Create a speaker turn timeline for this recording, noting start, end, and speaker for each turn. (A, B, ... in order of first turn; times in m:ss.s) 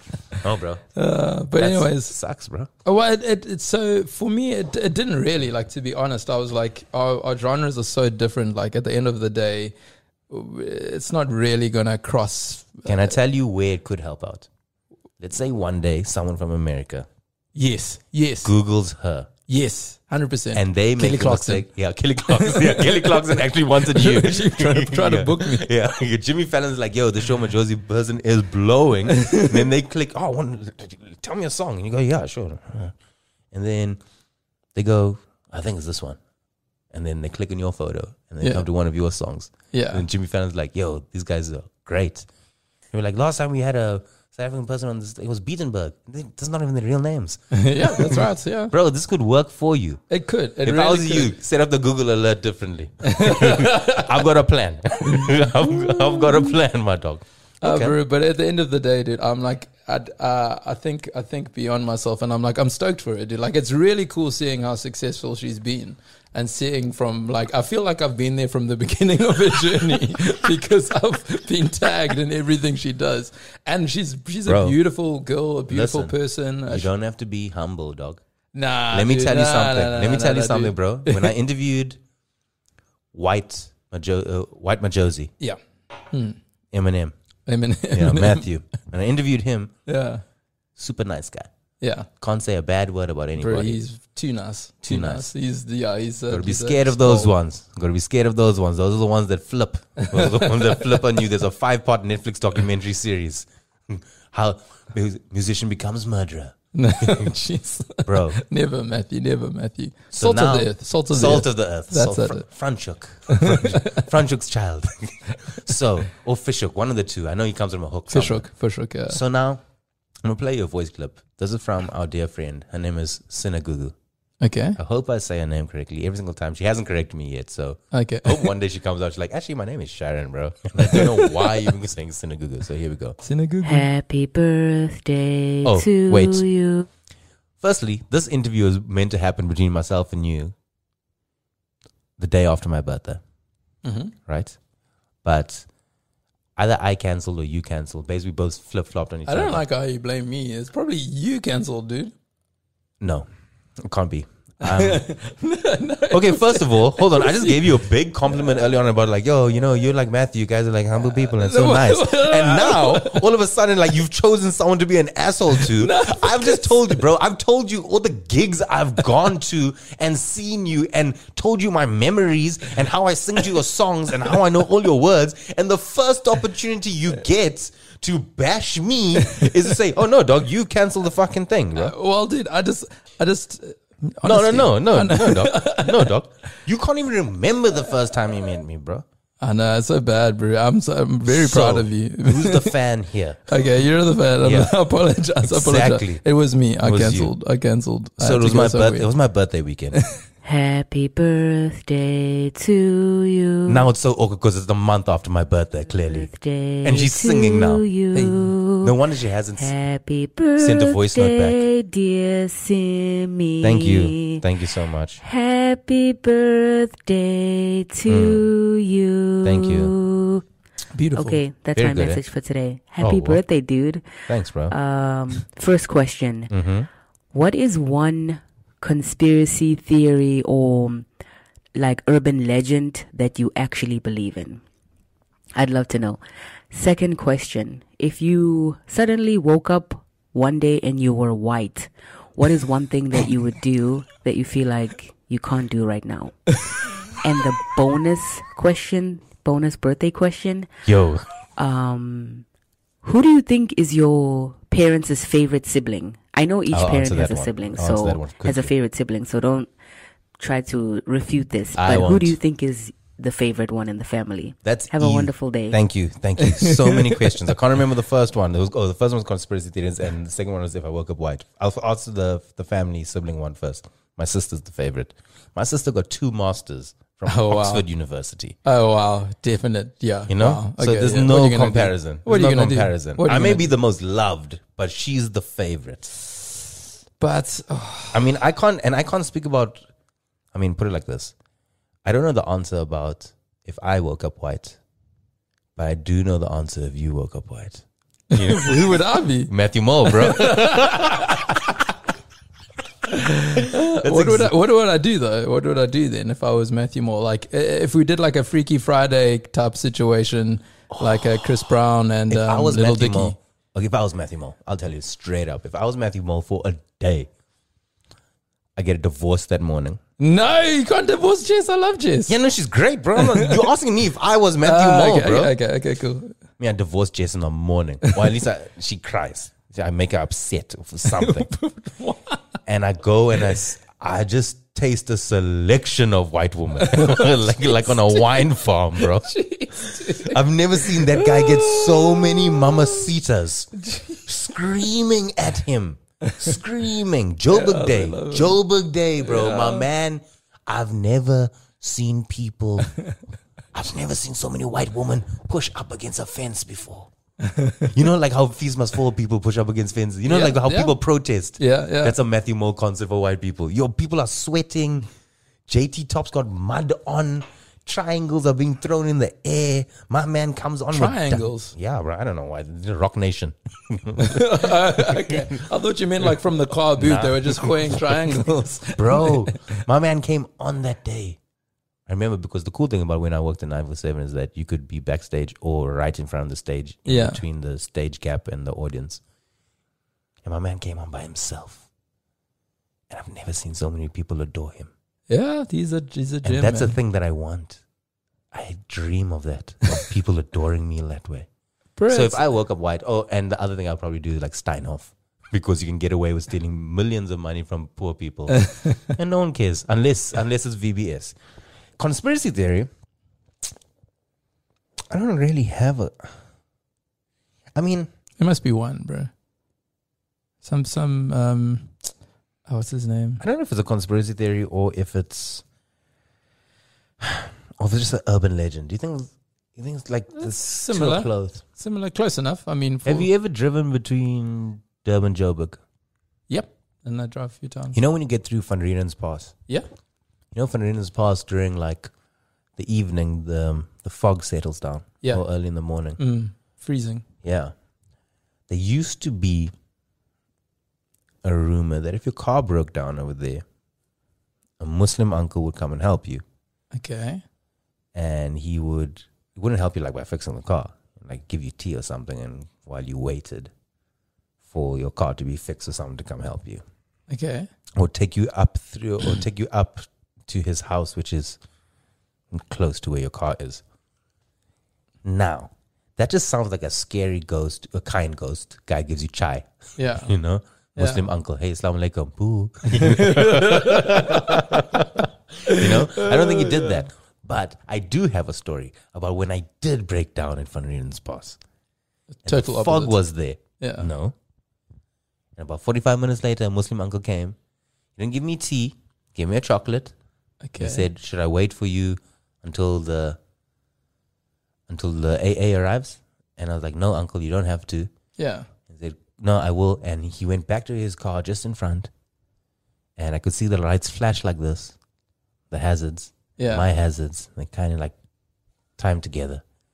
0:00.4-0:00.8 A
0:01.0-0:02.2 B
0:01.6-0:02.7 A
0:02.8-0:09.7 B
0:10.3-0:13.1 B
0:12.8-0:14.5 A
0:15.2-0:17.1 A
0:17.5-0:18.5 B
0:18.4-0:19.3 A
0:19.5-0:21.6 B
0:20.5-0:32.9 A
0:22.3-0:25.7 B
0:29.1-0:29.6 B
0:33.5-0:34.0 A
0:34.7-0:36.2 A
0:36.9-0:42.3 A
0:39.7-0:40.0 B
0:42.9-0:50.0 A
0:47.5-0:48.7 B
0:50.1-0:51.3 B
0:50.6-0:58.0 A
0:53.1-0:54.0 B
0:57.6-1:16.9 B
1:14.4-1:14.8 A
1:15.7-1:18.2 A
1:18.5-1:21.3 B
1:18.9-1:22.0 A
1:23.1-1:25.3 A
1:26.1-1:26.4 B
1:26.7-1:27.1 A
1:27.5-1:28.4 B
1:27.9-1:29.7 A
1:29.9-1:30.2 B
1:30.8-1:31.5 A
1:31.8-1:32.1 B
1:32.2-1:33.8 A
1:33.4-1:37.3 B
1:34.8-1:35.3 A
1:36.3-1:47.3 A
1:40.0-1:41.0 B
1:46.7-1:52.4 B
1:48.0-1:48.4 A
1:50.1-1:58.5 A
1:53.3-1:54.0 B
1:58.1-1:59.2 B
1:59.1-1:59.6 A
2:00.2-2:03.9 A
2:04.4-2:04.8 B
2:04.8-2:13.2 A
2:07.9-2:08.5 B
2:10.8-2:11.5 B
2:13.2-2:13.9 B
2:13.6-2:16.8 C
2:15.6-2:16.4 A
2:17.6-2:20.5 A
2:22.2-2:23.2 A
2:23.8-2:24.1 B
2:24.3-2:24.6 A
2:25.2-2:25.6 A
2:26.6-2:29.6 A
2:29.2-2:32.1 B
2:33.0-2:33.3 A
2:33.8-2:35.0 A
2:34.6-2:37.6 B
2:36.1-3:01.9 A
2:41.2-2:43.2 B
2:45.6-2:47.0 B
3:01.8-3:06.1 B
3:04.2-3:09.0 A
3:09.4-3:12.7 B
3:11.3-3:13.4 A
3:13.5-3:19.1 B
3:14.4-3:14.7 A
3:15.4-3:16.2 A
3:16.8-3:17.3 A
3:18.2-3:20.0 A
3:20.4-3:23.9 C
3:23.7-3:26.3 A
3:26.0-3:28.9 C
3:26.8-3:29.7 A
3:29.6-3:34.4 C
3:30.6-3:31.6 A
3:33.6-3:35.2 A
3:35.2-3:40.4 C
3:38.0-3:38.5 A
3:39.4-3:39.9 A
3:40.9-3:41.4 B
3:41.1-3:46.5 C
3:41.7-3:42.2 A
3:43.0-3:43.4 A
3:44.3-3:44.7 A
3:46.5-3:46.9 A
3:47.3-3:51.1 C
3:51.8-3:54.6 C
3:55.5-4:06.5 C
4:07.2-4:10.8 C
4:10.8-4:11.2 A
4:11.6-4:12.4 C
4:13.0-4:19.7 C
4:16.7-4:18.7 A
4:20.4-4:25.8 C
4:21.7-4:22.4 A
4:24.6-4:38.6 A
4:26.4-4:27.3 B
4:37.2-4:37.8 B
4:38.6-4:43.7 B
4:40.3-4:46.2 A
4:47.2-4:48.2 B
4:48.1-4:49.8 A
4:50.5-4:51.3 A
4:52.0-4:54.8 A
4:55.8-5:01.8 A
4:58.3-4:59.5 B
5:00.0-5:01.1 B
5:03.1-5:13.4 B
5:03.6-5:04.5 A
5:10.9-5:11.7 A
5:12.3-5:17.3 A
5:18.8-5:20.0 A
5:20.2-5:22.3 B
5:22.3-5:25.6 A
5:23.2-5:23.6 B
5:24.6-5:26.3 B
5:26.6-5:31.5 A
5:31.1-5:32.4 B
5:32.6-5:53.0 A
5:36.8-5:43.1 B
5:43.8-5:44.2 B
5:47.5-5:48.6 B
5:49.2-5:49.9 B
5:53.7-5:57.1 A
5:57.4-5:57.9 B
5:57.9-6:05.1 A
6:00.3-6:01.0 B
6:01.6-6:02.2 B
6:05.7-6:15.5 A
6:10.9-6:11.7 B
6:14.2-6:19.5 B
6:17.0-6:21.4 A
6:22.1-6:29.2 A
6:27.1-6:27.4 B
6:30.4-6:31.8 A
6:33.1-6:34.9 A
6:35.3-6:37.0 B
6:36.4-6:37.8 A
6:38.5-6:41.5 A
6:42.0-6:42.4 B
6:42.1-6:51.4 A
6:48.5-6:49.0 B
6:52.0-6:52.9 A
6:55.1-6:56.3 A
6:57.7-6:58.1 A
6:58.4-6:59.3 B
7:00.6-7:01.9 B
7:02.7-7:03.4 B
7:03.4-7:05.6 A
7:07.2-7:11.6 A
7:10.4-7:13.3 B
7:13.0-7:15.8 A
7:16.5-7:18.0 B
7:17.9-7:19.5 A
7:20.5-7:22.1 A
7:22.8-7:26.2 A
7:26.2-7:27.2 B
7:27.4-7:27.7 A
7:28.7-7:29.7 A
7:31.4-7:33.6 A
7:34.8-7:36.4 A
7:36.9-7:37.4 B
7:38.1-7:43.7 A
7:44.6-7:46.8 A
7:47.3-7:47.7 B
7:48.0-7:51.6 A
7:52.5-7:53.8 A
7:55.2-8:11.6 A
8:00.0-8:00.3 B
8:01.0-8:01.2 B
8:02.9-8:04.8 B
8:05.7-8:07.0 B
8:12.4-8:13.2 B
8:12.4-8:14.3 A
8:13.8-8:14.1 B
8:15.6-8:17.6 A
8:18.2-8:20.1 A
8:20.6-8:21.1 B
8:20.8-8:23.4 A
8:24.9-8:28.1 A
8:28.4-8:28.7 B
8:28.9-8:32.1 A
8:33.2-8:35.0 A
8:35.7-8:38.1 A
8:36.6-8:36.8 B
8:39.0-8:39.6 A